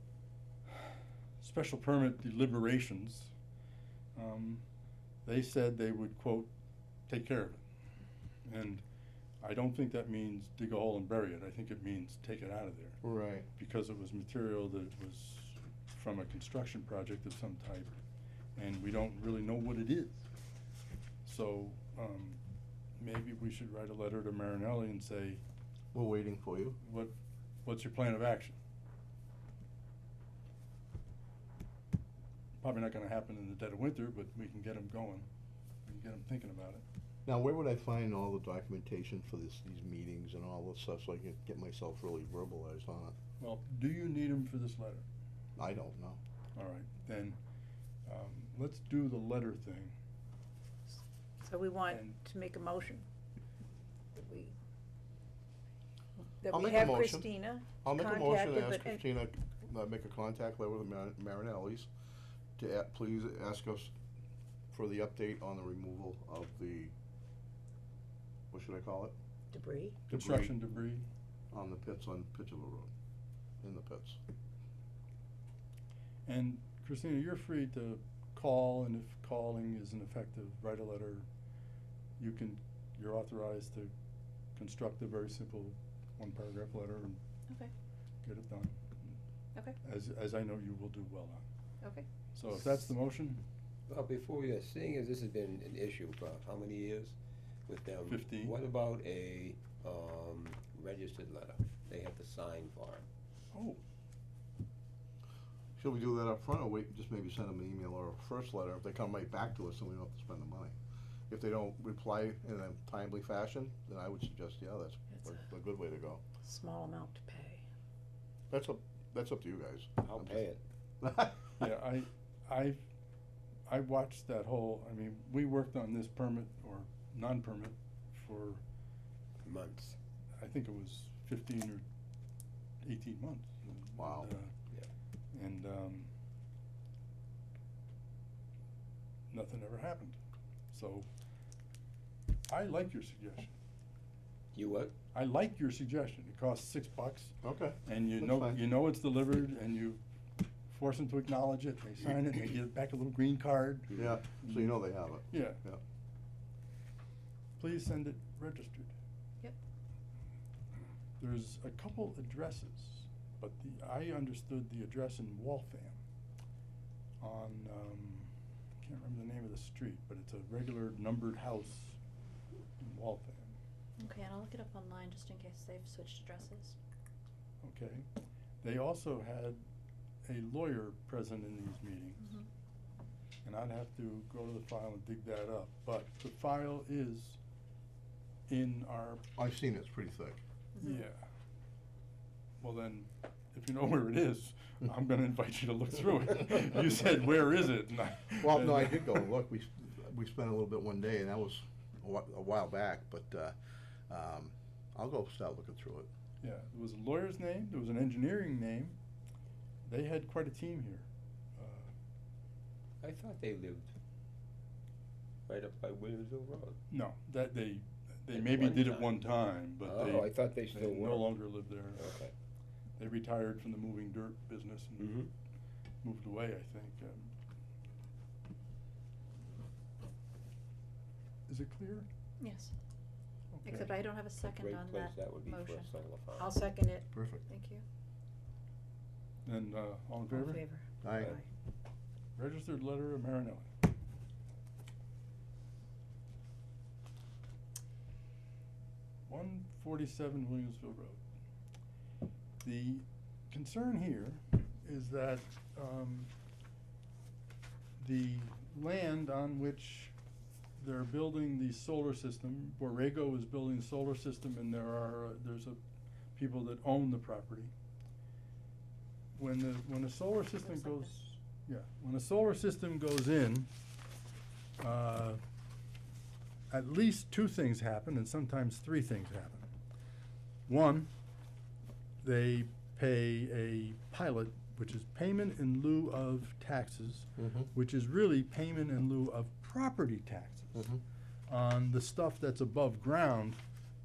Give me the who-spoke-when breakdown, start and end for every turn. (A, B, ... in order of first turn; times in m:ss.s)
0:01.4-0:03.3 A
0:04.2-0:04.6 A
0:05.3-0:06.5 A
0:07.1-0:07.6 A
0:08.4-0:08.8 A
0:09.4-0:13.0 A
0:13.0-0:13.5 B
0:13.6-0:18.0 A
0:18.6-0:20.2 A
0:21.2-0:22.4 A
0:23.0-0:25.4 A
0:25.9-0:26.8 B
0:26.8-0:27.1 A
0:27.6-0:28.6 A
0:32.6-0:35.3 A
0:35.8-0:36.8 A
0:37.3-0:43.2 B
0:43.4-0:45.1 A
0:45.6-0:46.2 B
0:46.6-0:47.4 A
0:48.1-0:50.0 A
0:50.9-0:53.0 C
0:51.9-0:52.2 A
0:54.2-0:54.5 C
0:56.4-0:59.0 C
0:56.5-1:01.9 B
1:02.6-1:03.9 B
1:04.7-1:06.9 B
1:08.5-1:09.2 B
1:09.5-1:10.0 C
1:10.1-1:10.6 B
1:10.1-1:11.1 A
1:11.5-1:12.9 B
1:13.6-1:14.2 B
1:16.3-1:21.3 A
1:22.2-1:23.9 A
1:24.6-1:27.2 A
1:28.2-1:29.2 A
1:29.8-1:31.4 A
1:31.8-1:32.1 D
1:32.4-1:33.4 A
1:33.9-1:37.2 E
1:37.7-1:43.1 E
1:38.1-1:38.6 A
1:43.5-1:43.8 A
1:45.8-1:50.8 B
1:51.3-1:56.2 B
1:56.4-1:57.6 C
1:58.5-2:00.5 B
2:00.0-2:00.6 E
2:01.0-2:01.7 B
2:01.6-2:02.8 A
2:03.7-2:08.6 A
2:09.4-2:10.0 E
2:10.4-2:11.8 A
2:12.8-2:14.5 A
2:14.0-2:14.3 B
2:15.3-2:16.1 A
2:19.3-2:20.2 A
2:20.7-2:21.1 A
2:22.5-2:23.5 A
2:24.5-2:25.0 E
2:25.1-2:27.3 A
2:27.4-2:28.6 B
2:27.8-2:30.0 A
2:30.7-2:34.7 A
2:34.0-2:35.8 B
2:35.3-2:35.6 A
2:37.6-2:38.9 A
2:41.2-2:46.0 A
2:47.2-2:52.0 A
2:52.8-2:53.6 A
2:54.0-2:56.8 D
2:57.6-2:58.1 A
2:58.6-2:59.6 A
3:00.2-3:02.3 A
3:03.4-3:07.4 A
3:08.5-3:09.2 A
3:09.4-3:10.4 B
3:10.8-3:11.0 D
3:10.8-3:11.3 A
3:12.6-3:19.2 A
3:18.4-3:23.6 B
3:24.1-3:26.1 B
3:26.4-3:29.0 A
3:29.8-3:31.9 A
3:33.0-3:33.9 E
3:35.5-3:36.8 E
3:36.9-3:42.1 A
3:38.3-3:39.2 E
3:39.8-3:42.3 E
3:43.0-3:45.2 A
3:45.0-3:45.3 E
3:46.0-3:47.3 A
3:51.5-3:52.1 A
3:52.4-3:52.7 D
3:53.5-3:53.9 A
3:53.6-3:55.9 D
3:54.4-3:56.7 E
3:56.4-3:57.1 C
3:57.1-3:57.4 B
3:57.5-3:57.8 D
3:59.4-4:00.6 A
4:00.3-4:01.4 C
4:01.0-4:01.4 B
4:02.4-4:03.7 A
4:09.3-4:11.2 A
4:12.6-4:16.3 A
4:18.0-4:20.1 A
4:20.8-4:25.8 A
4:26.4-4:27.7 A
4:29.4-4:33.7 A
4:30.6-4:31.2 D
4:34.8-4:35.4 A
4:36.7-4:39.7 A
4:40.7-4:41.1 A
4:42.2-4:50.9 A
4:47.4-4:47.7 B
4:50.8-4:51.0 B
4:51.5-4:53.6 A